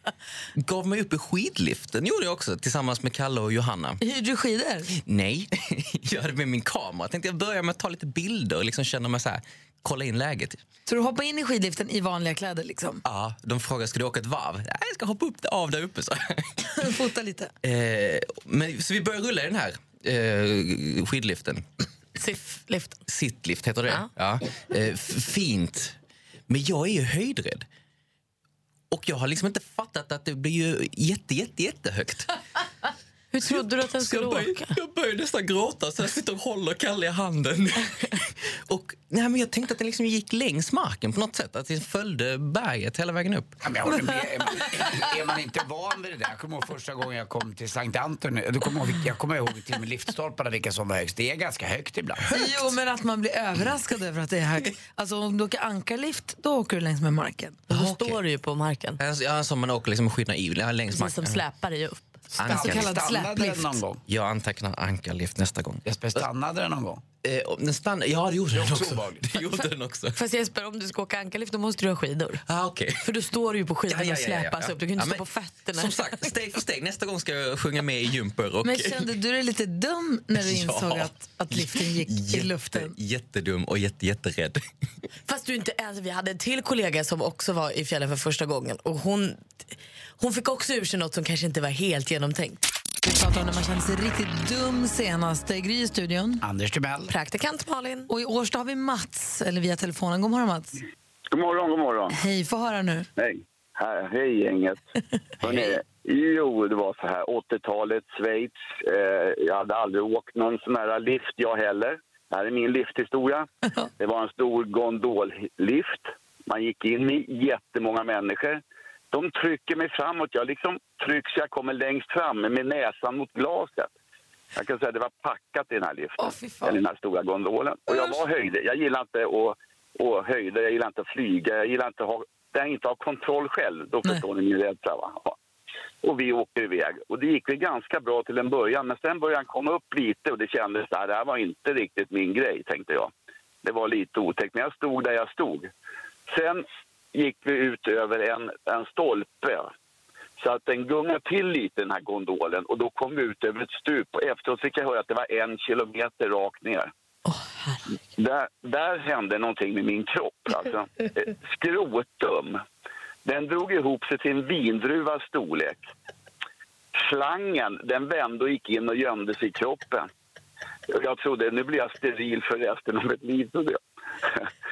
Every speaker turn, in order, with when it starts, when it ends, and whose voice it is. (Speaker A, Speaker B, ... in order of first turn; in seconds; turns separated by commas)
Speaker A: 0.6-4.0, Speaker B: 4.0-4.9, Speaker A: 4.9-10.6, Speaker B: 10.9-13.0, Speaker A: 13.0-16.5, Speaker B: 16.8-17.5, Speaker A: 17.6-21.6, Speaker C: 22.2-23.0, Speaker A: 23.1-26.0, Speaker A: 26.5-27.7, Speaker A: 28.9-32.3, Speaker C: 33.3-34.8, Speaker A: 33.5-43.6, Speaker D: 43.6-52.3, Speaker B: 52.3-57.7, Speaker C: 57.7-59.0, Speaker A: 57.8-58.2, Speaker A: 59.0-61.4, Speaker C: 60.9-62.0, Speaker A: 62.4-62.9, Speaker D: 62.5-64.0, Speaker B: 62.5-63.8, Speaker A: 64.1-66.2, Speaker D: 65.9-67.0, Speaker A: 67.2-70.2, Speaker D: 68.5-69.3, Speaker C: 70.2-72.4, Speaker A: 72.5-73.0, Speaker C: 73.0-76.3, Speaker A: 73.9-79.0, Speaker B: 78.6-83.0, Speaker A: 80.4-84.6, Speaker C: 85.3-89.5, Speaker C: 90.2-92.6, Speaker B: 93.0-96.4, Speaker D: 96.4-97.1, Speaker C: 97.1-98.1, Speaker B: 98.1-100.8, Speaker E: 101.3-102.2, Speaker B: 102.1-103.1, Speaker E: 103.2-104.8, Speaker D: 105.4-105.7, Speaker E: 105.4-113.5, Speaker E: 114.0-123.9, Speaker E: 124.5-135.3, Speaker B: 126.2-126.8, Speaker B: 127.9-128.2, Speaker E: 136.0-143.1, Speaker E: 143.6-145.7, Speaker E: 146.3-149.7, Speaker E: 150.4-156.9, Speaker C: 157.3-157.8, Speaker E: 158.2-162.6, Speaker E: 163.2-165.8, Speaker E: 167.0-170.1, Speaker E: 170.9-174.5